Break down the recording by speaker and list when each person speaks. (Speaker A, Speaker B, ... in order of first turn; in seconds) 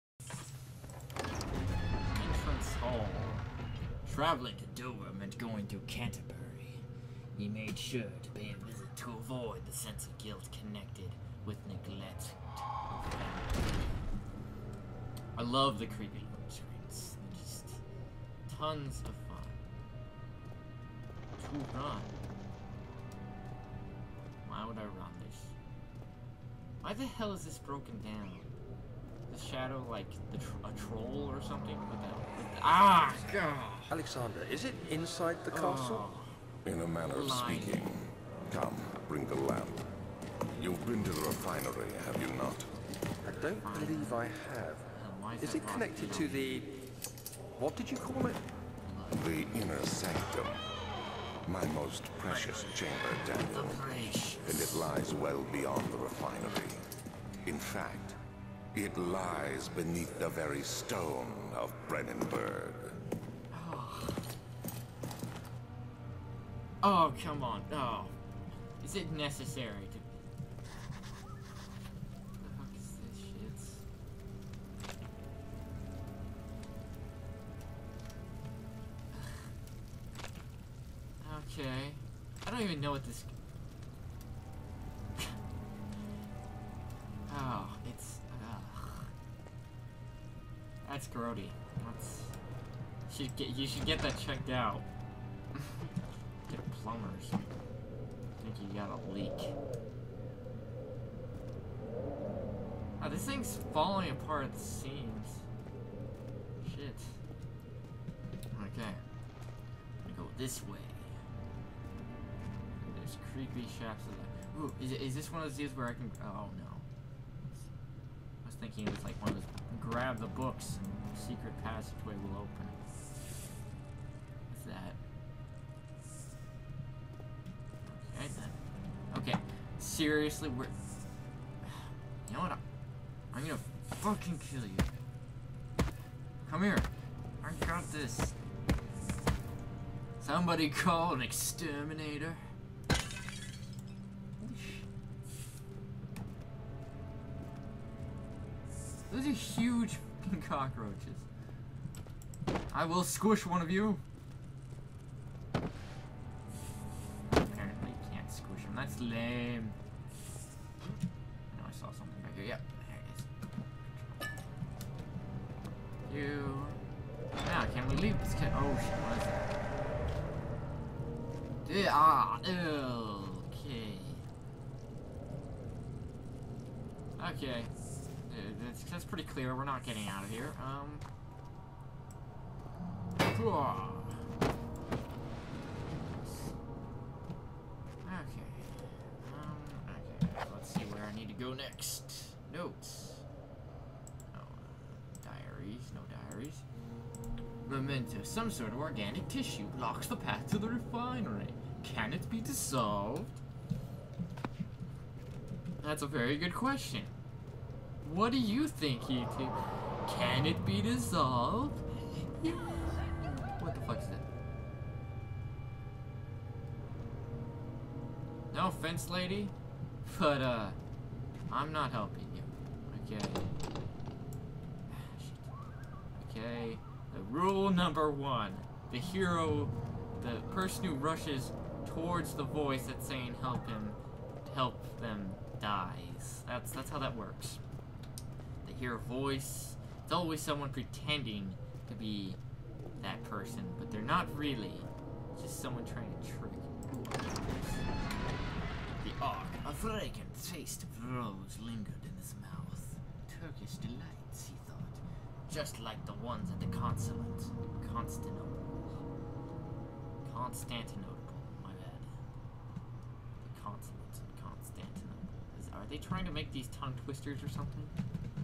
Speaker A: 2.1-3.5, 4.0-14.0, 15.3-17.8, 18.4-19.6, 21.4-22.2, 24.4-25.5, 26.8-28.5, 29.3-33.9, 35.5-36.4, 37.1-37.9, 43.3-44.3, 44.9-46.6, 48.8-49.5, 52.2-54.9, 63.5-64.3, 66.8-68.2, 68.8-70.2, 72.4-73.8, 79.1-79.5, 81.2-83.3, 87.3-89.1, 90.8-92.4, 93.1-94.9, 95.5-95.9, 96.4-97.4, 98.4-99.6, 103.0-105.5, 106.6-107.2, 108.5-109.0, 110.0-111.2, 112.8-116.8, 118.4-122.8, 124.5-125.0, 127.8-130.7, 131.6-132.6, 133.3-134.9, 136.4-136.9, 137.4-138.3, 140.2-142.5, 144.4-144.9, 149.1-151.3, 152.7-154.0, 157.3-159.8, 161.5-163.3, 163.8-164.2, 166.1-166.8, 167.4-169.6, 171.6-174.2, 177.2-177.7, 178.3-181.0, 183.2-184.2, 186.1-186.5, 188.0-193.2, 194.3-196.6, 197.7-203.4, 205.8-207.1, 208.0-214.2, 218.5-219.5, 220.0-220.8, 221.5-223.6, 224.9-225.5, 226.2-237.6, 238.6-242.4, 243.0-247.9, 249.0-258.8, 260.2-262.2, 263.4-267.9
Speaker B: 33.9-36.0, 43.2-44.9, 45.4-46.7, 47.6-48.4
Speaker C: 36.6-39.8, 40.5-42.7, 49.1-50.6, 51.5-53.9, 54.4-56.8, 57.4-58.2, 58.7-63.0